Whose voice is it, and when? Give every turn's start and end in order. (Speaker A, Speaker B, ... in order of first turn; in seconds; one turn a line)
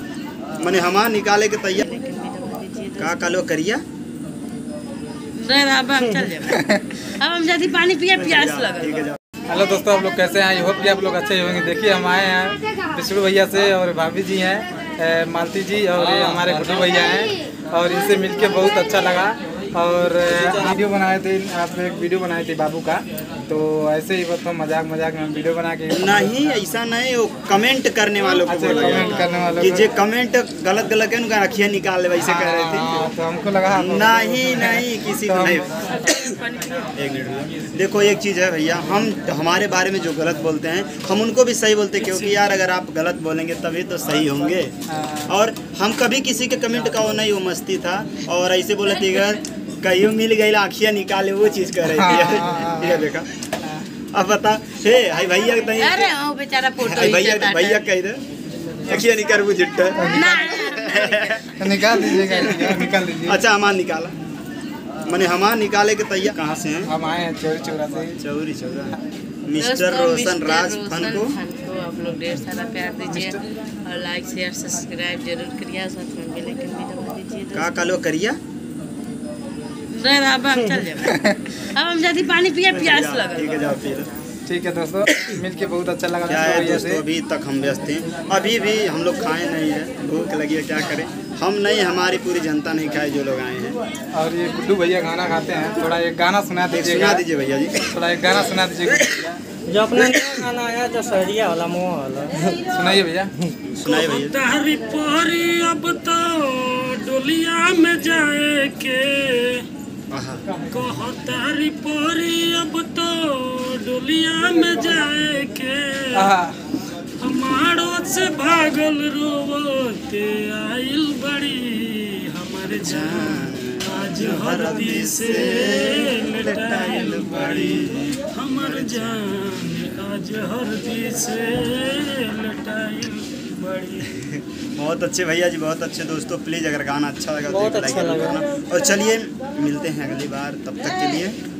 Speaker A: 0.6-1.9
Speaker B: 1.8-3.3
Speaker A: 3.0-3.8
Speaker B: 5.3-9.0
Speaker C: 6.4-7.0
Speaker A: 8.1-9.2
Speaker C: 9.5-26.3
Speaker A: 25.9-33.0
Speaker C: 28.4-29.9
Speaker C: 32.2-35.9
Speaker A: 33.7-36.4
Speaker B: 35.9-36.9
Speaker A: 37.0-44.7
Speaker C: 44.9-45.3
Speaker A: 45.3-53.3
Speaker C: 51.9-53.1
Speaker A: 54.1-56.1
Speaker B: 55.8-57.8
Speaker A: 56.8-58.2
Speaker A: 58.8-64.1
Speaker C: 60.0-60.5
Speaker B: 60.1-61.5
Speaker C: 61.5-63.4
Speaker A: 65.0-66.9
Speaker C: 66.9-68.2
Speaker A: 68.2-71.4
Speaker B: 69.5-77.7
Speaker C: 73.1-73.4
Speaker A: 77.5-78.4
Speaker B: 79.9-83.6
Speaker C: 81.0-81.4
Speaker A: 82.7-84.1
Speaker C: 84.5-87.0
Speaker A: 86.3-93.8
Speaker C: 94.1-97.2
Speaker A: 96.7-97.9
Speaker C: 97.8-99.4
Speaker D: 99.7-102.6
Speaker A: 100.0-100.4
Speaker C: 102.7-103.3
Speaker A: 103.7-104.4
Speaker E: 103.8-109.7
Speaker A: 110.1-110.4
Speaker E: 110.7-116.3
Speaker C: 116.1-116.6
Speaker E: 117.2-134.0
Speaker A: 122.7-129.3
Speaker A: 134.0-141.4
Speaker D: 137.5-138.4